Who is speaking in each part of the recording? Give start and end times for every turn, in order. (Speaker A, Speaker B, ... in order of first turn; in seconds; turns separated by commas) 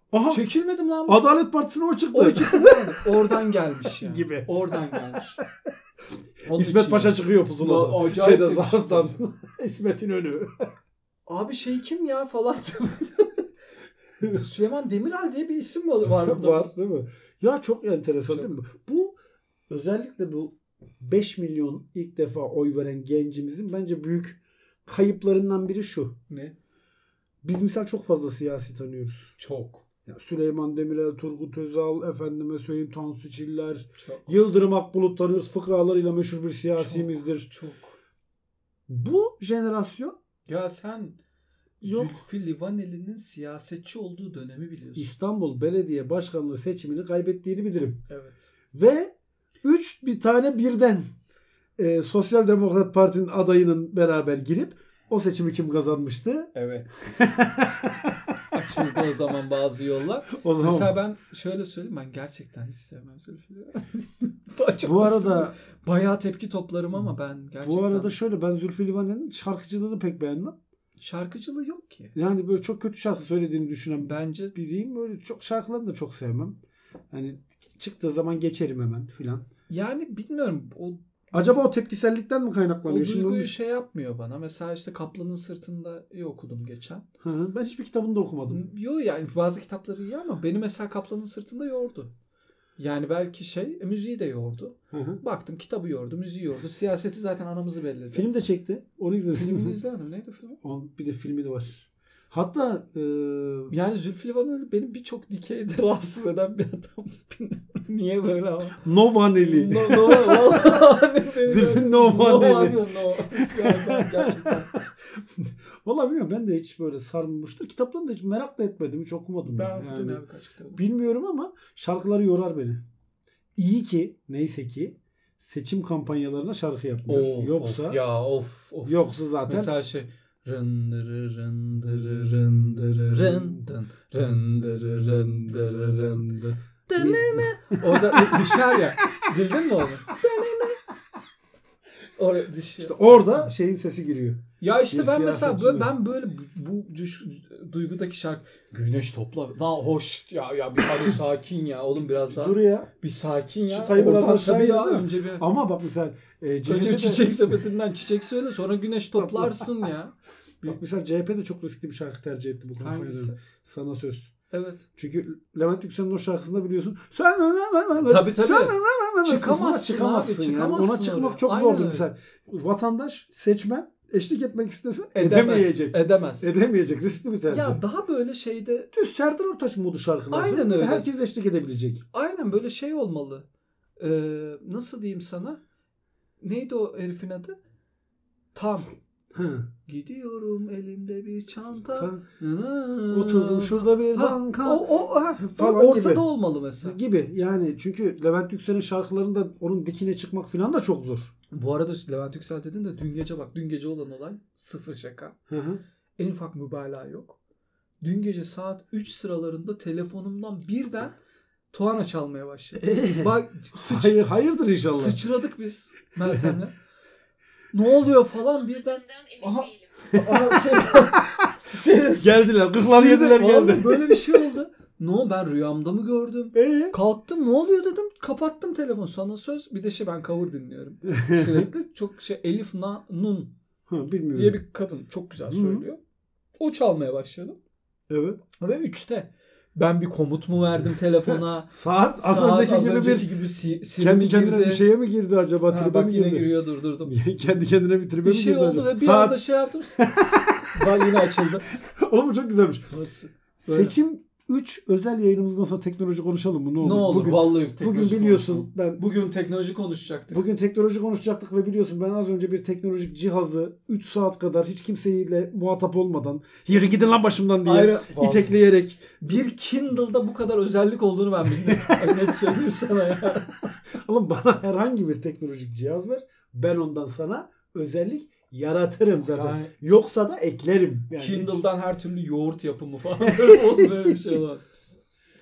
Speaker A: 0.1-0.5, Speaker B: 0.3-1.3, Speaker A: 1.1-3.1, Speaker B: 2.1-5.4, Speaker A: 3.9-5.5, Speaker B: 6.5-9.2, Speaker A: 6.5-10.6, Speaker B: 11.3-13.5, Speaker B: 14.2-16.7, Speaker A: 16.1-19.2, Speaker B: 18.3-18.5, Speaker A: 19.7-26.2, Speaker B: 26.3-26.6, Speaker A: 27.4-29.4, Speaker B: 29.4-29.9, Speaker A: 30.1-37.5, Speaker B: 34.0-34.4, Speaker B: 36.8-37.9, Speaker A: 38.9-40.2, Speaker B: 40.5-41.2, Speaker B: 41.8-45.1, Speaker A: 41.8-42.2, Speaker A: 45.0-48.0, Speaker B: 48.1-48.5, Speaker A: 48.7-51.0, Speaker A: 51.8-56.5, Speaker B: 56.5-57.3, Speaker A: 57.0-58.3, Speaker B: 58.5-68.2, Speaker A: 60.3-61.0, Speaker A: 64.8-65.5, Speaker A: 67.6-70.6, Speaker B: 71.0-72.2, Speaker A: 72.2-76.6, Speaker B: 74.0-74.6, Speaker A: 77.1-79.5, Speaker B: 79.7-81.6, Speaker A: 81.3-83.5, Speaker B: 82.9-87.1, Speaker A: 87.2-88.6, Speaker B: 88.5-92.1, Speaker B: 92.8-98.3, Speaker A: 94.9-95.2, Speaker A: 98.1-99.8, Speaker B: 99.4-100.6, Speaker A: 100.6-103.7, Speaker B: 103.7-108.8, Speaker A: 108.8-110.7, Speaker B: 109.4-114.7, Speaker A: 111.4-120.2, Speaker B: 119.6-120.8, Speaker A: 120.8-122.8, Speaker A: 123.6-128.0, Speaker B: 127.1-136.3, Speaker A: 128.9-129.7, Speaker A: 131.9-133.7, Speaker A: 134.2-139.2, Speaker B: 136.9-140.8, Speaker A: 140.2-140.6, Speaker B: 142.2-143.5, Speaker A: 142.8-145.9, Speaker B: 144.6-155.4, Speaker A: 152.3-152.9, Speaker A: 153.7-157.6, Speaker B: 156.6-160.8, Speaker A: 159.2-159.9, Speaker A: 160.6-164.3, Speaker B: 162.8-163.4, Speaker B: 164.5-164.8, Speaker A: 165.0-177.8, Speaker B: 168.0-172.1, Speaker B: 175.1-176.5, Speaker B: 177.5-178.9, Speaker A: 178.9-182.0, Speaker B: 180.3-181.1, Speaker B: 182.0-183.5, Speaker B: 184.0-185.6, Speaker B: 186.4-187.6, Speaker B: 188.6-188.9, Speaker A: 189.3-189.7, Speaker B: 189.9-197.0, Speaker A: 191.9-192.2, Speaker A: 193.1-196.3, Speaker A: 196.8-201.3, Speaker B: 201.5-205.4, Speaker A: 205.5-205.8, Speaker B: 206.2-207.4, Speaker B: 208.0-211.2, Speaker B: 211.7-214.2, Speaker A: 212.8-215.2, Speaker B: 214.8-216.8, Speaker A: 216.2-216.6, Speaker B: 217.7-233.5, Speaker A: 220.1-220.6, Speaker A: 222.2-224.5, Speaker A: 226.5-226.9, Speaker A: 231.1-231.7, Speaker A: 233.9-234.6, Speaker B: 234.3-236.0, Speaker A: 235.5-235.8, Speaker B: 236.6-237.6, Speaker A: 238.1-238.4, Speaker B: 238.6-244.9, Speaker A: 241.3-243.4, Speaker A: 244.0-252.9, Speaker B: 245.7-247.2, Speaker B: 248.2-251.7, Speaker B: 252.9-254.0, Speaker A: 253.7-259.0, Speaker B: 256.8-260.4, Speaker A: 260.3-269.2, Speaker B: 267.6-268.6, Speaker B: 269.2-273.8, Speaker A: 271.6-272.5, Speaker A: 273.9-281.7, Speaker B: 279.1-279.7, Speaker B: 281.2-284.7, Speaker A: 283.3-284.2